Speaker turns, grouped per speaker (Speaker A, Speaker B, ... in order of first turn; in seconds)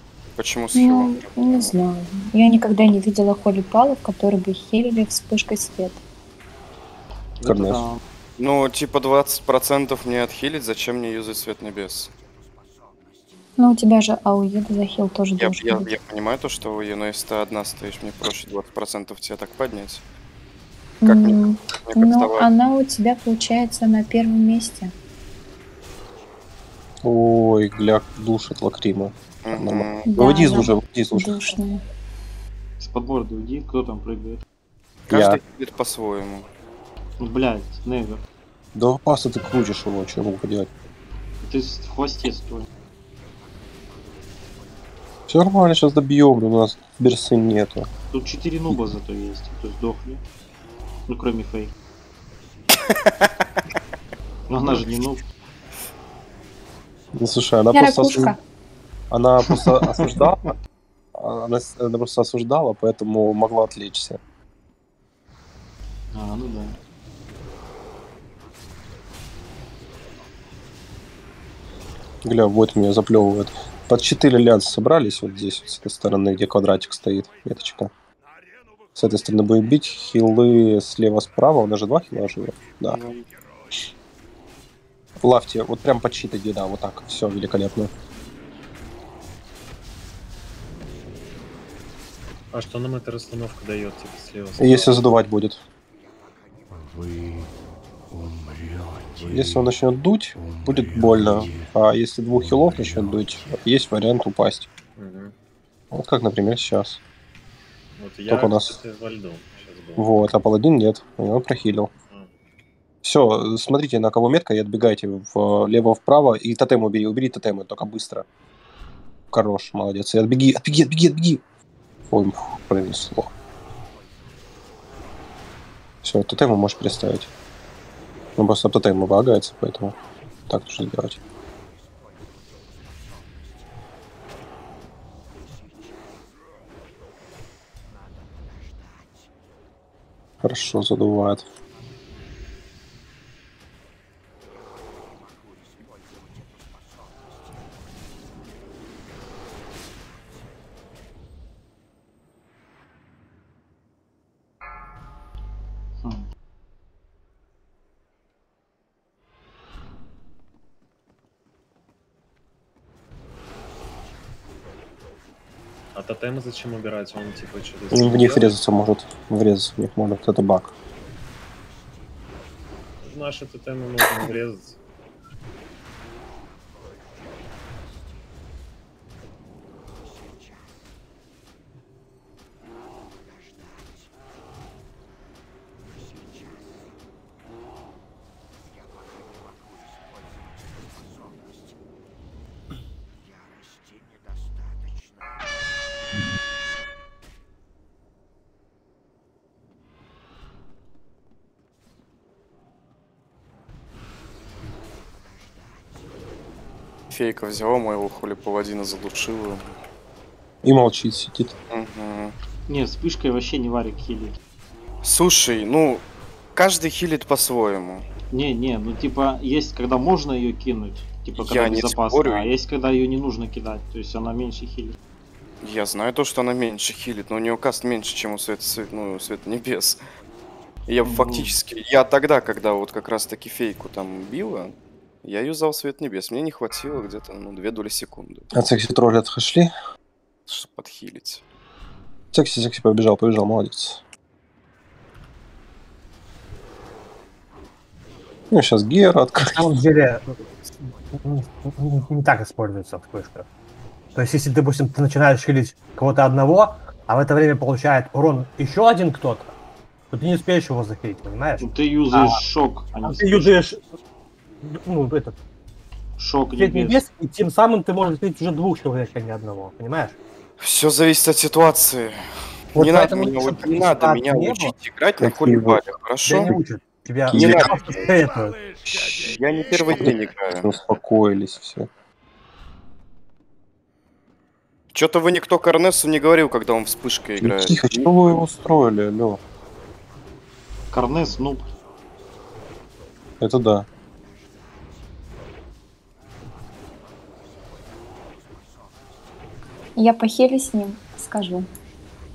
Speaker A: 0.4-1.7, 8.4-12.1, 15.4-20.0, 21.1-22.5, 29.4-30.1, 35.1-36.5, 52.9-53.3, 82.9-83.2, 207.1-209.7, 211.7-212.3, 215.0-216.0, 216.6-218.1, 221.4-222.5, 225.6-230.1, 230.9-238.5, 240.5-241.4, 270.6-276.5, 277.3-278.1, 279.1-280.7, 284.9-288.4
Speaker B: 0.7-6.0, 13.6-15.9, 21.0-24.9, 30.1-31.8, 57.7-58.4, 300.0-301.7
Speaker C: 7.4-8.0, 32.8-34.4, 37.2-38.2, 41.4-42.7, 48.1-50.2, 51.1-51.7, 54.5-55.2, 59.6-60.2, 66.1-66.8, 212.7-214.4, 218.3-225.0, 231.0-231.6, 261.6-263.5, 266.2-267.0, 290.9-291.7
Speaker D: 7.5-7.8, 27.0-31.4, 35.1-35.4, 38.7-40.7, 45.3-47.9, 57.2-58.4, 59.1-60.6, 61.1-64.2, 72.2-77.9, 79.0-83.0, 85.2-87.9, 94.6-95.6, 99.2-104.7, 105.9-107.0, 108.3-108.8, 110.0-111.9, 113.0-118.2, 119.3-121.4, 122.1-123.3, 126.0-127.3, 128.4-129.9, 130.5-131.2, 140.4-141.4, 167.9-170.7, 210.6-211.5, 238.5-239.7, 242.3-244.0, 248.5-249.7, 275.2-275.8, 277.3-277.8, 279.8-281.9, 287.4-289.4, 293.4-293.9
Speaker E: 92.5-95.0, 105.0-105.3, 108.0-110.3, 165.9-168.6, 173.0-174.8
Speaker F: 249.4-253.5, 254.2-259.5, 260.1-262.4, 263.0-263.8, 264.6-265.4, 266.6-270.2, 272.8-274.8, 276.2-279.4